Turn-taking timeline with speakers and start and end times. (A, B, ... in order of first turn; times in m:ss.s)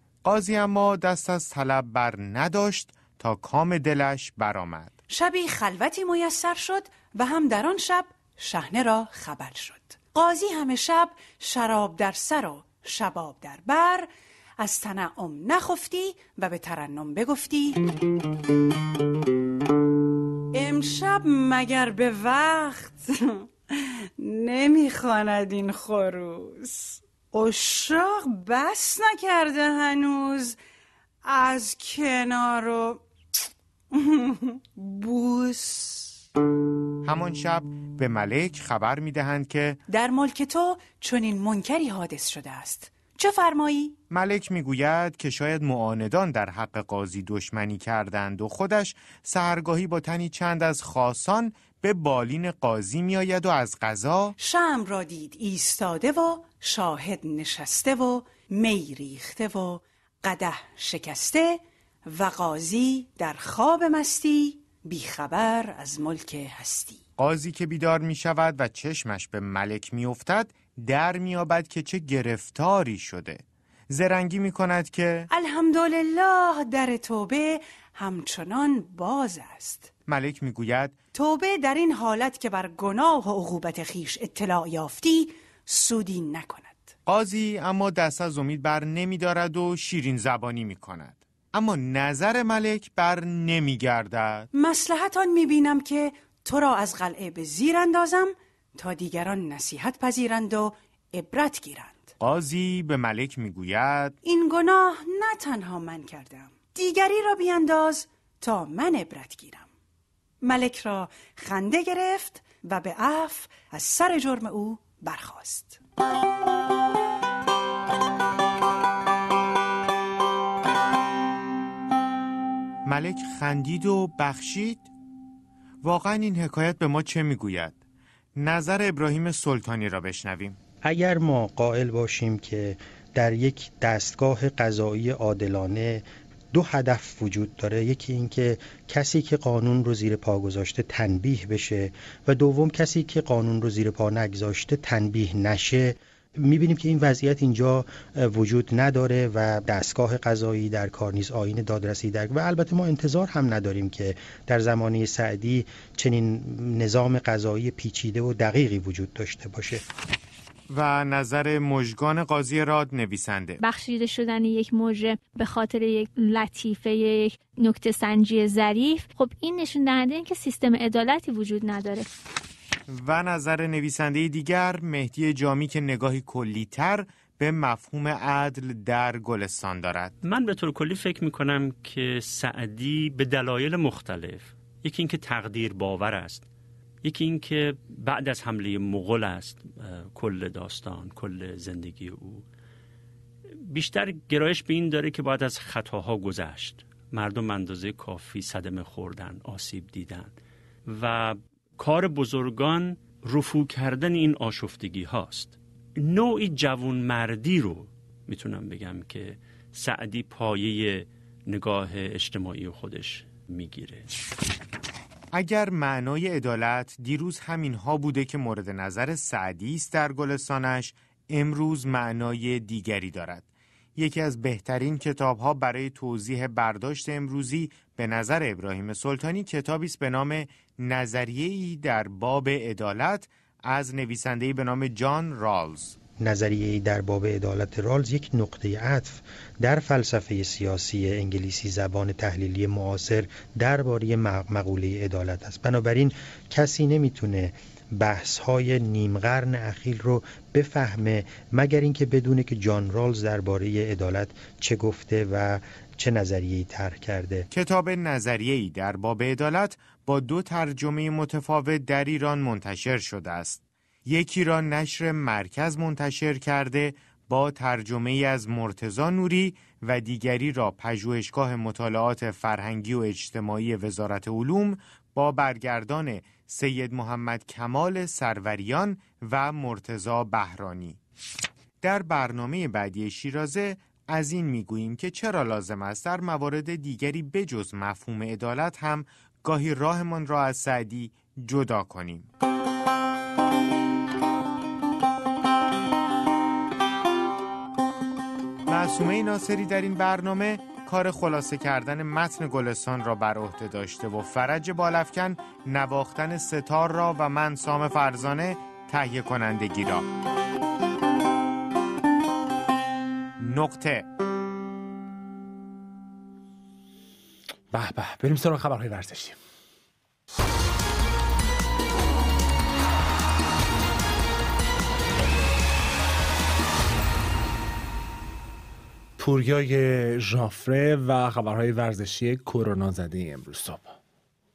0:00.2-0:04.9 A
0:05.1-0:17.8 B
0:20.5-0:23.5 B
0:24.2-0:30.6 B
0:31.2-0:33.0 B
0:33.9-0:36.2 B
0:37.0-0:39.8 A
0:39.9-0:44.0 B
0:44.1-0:54.3 A
0:54.4-1:07.0 B
1:07.2-1:15.3 A
1:15.3-1:19.9 B
1:20.1-1:21.0 A
1:21.1-1:26.9 B
1:27.0-1:34.5 A
1:34.5-1:42.1 B
1:42.2-1:44.2 A
1:44.2-1:49.7 B
1:50.4-1:55.8 B
2:02.9-2:04.9 A
2:05.8-2:07.8 A
2:08.4-2:10.6 A
2:10.8-2:39.8 C
2:40.7-2:43.6 A
2:43.6-2:52.1 D
2:52.9-3:00.1 A
3:00.2-3:06.5 E
3:07.0-3:12.5 E
3:13.6-3:34.1 E
3:35.3-3:56.0 A
3:56.2-4:17.5 C
4:17.5-4:41.0 A
4:41.8-4:52.3 A
4:58.7-5:10.0 A
5:13.4-5:14.1 A
5:17.7-5:19.4 F
5:29.2-5:34.0 F